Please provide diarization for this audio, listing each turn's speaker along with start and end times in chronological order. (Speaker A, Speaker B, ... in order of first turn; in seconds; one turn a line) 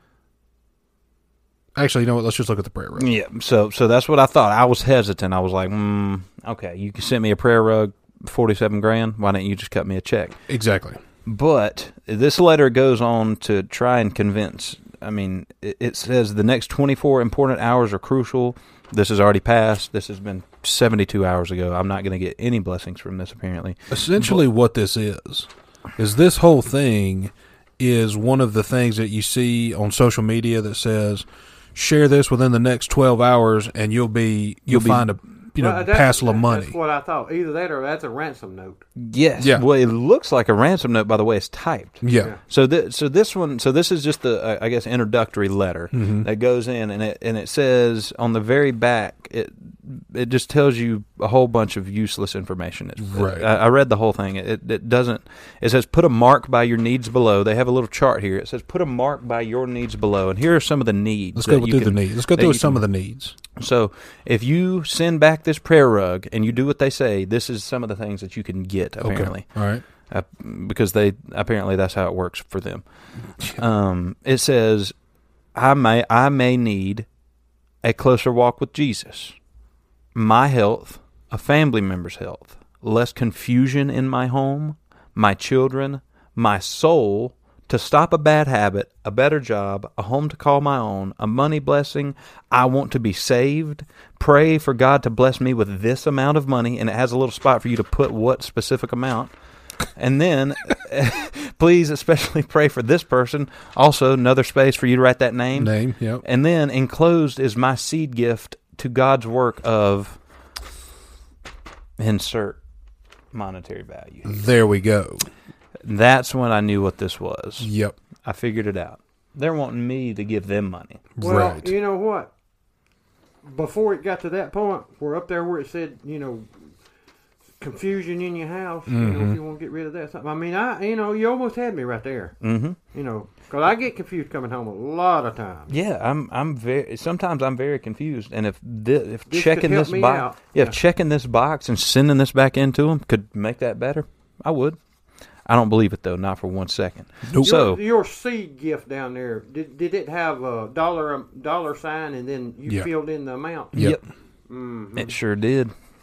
Speaker A: 1.8-3.1
Speaker B: 3.0-10.4
Speaker A: 10.5-11.0
Speaker B: 11.2-24.4
Speaker A: 23.9-36.8
Speaker B: 34.7-35.1
Speaker C: 35.6-38.8
Speaker B: 39.0-62.8
Speaker A: 42.0-42.3
Speaker A: 45.9-46.3
Speaker A: 53.0-53.5
Speaker A: 61.4-63.3
Speaker B: 63.5-69.5
Speaker A: 69.0-69.8
Speaker B: 70.1-72.8
Speaker B: 73.4-74.9
Speaker B: 75.5-77.0
Speaker B: 77.8-79.3
Speaker B: 80.1-99.3
Speaker B: 100.0-110.2
Speaker A: 105.5-106.2
Speaker B: 112.0-112.6
Speaker B: 113.3-114.4
Speaker A: 114.2-115.3
Speaker B: 115.8-117.7
Speaker A: 117.6-118.0
Speaker B: 118.2-121.1
Speaker A: 121.2-121.7
Speaker C: 121.2-122.3
Speaker C: 123.4-126.5
Speaker C: 127.6-132.3
Speaker A: 128.9-129.4
Speaker B: 132.4-132.8
Speaker C: 132.9-135.7
Speaker B: 135.7-144.8
Speaker C: 139.3-140.8
Speaker B: 145.5-147.8
Speaker A: 147.3-147.5
Speaker C: 147.4-153.8
Speaker B: 153.7-154.0
Speaker C: 154.5-155.1
Speaker B: 154.9-155.7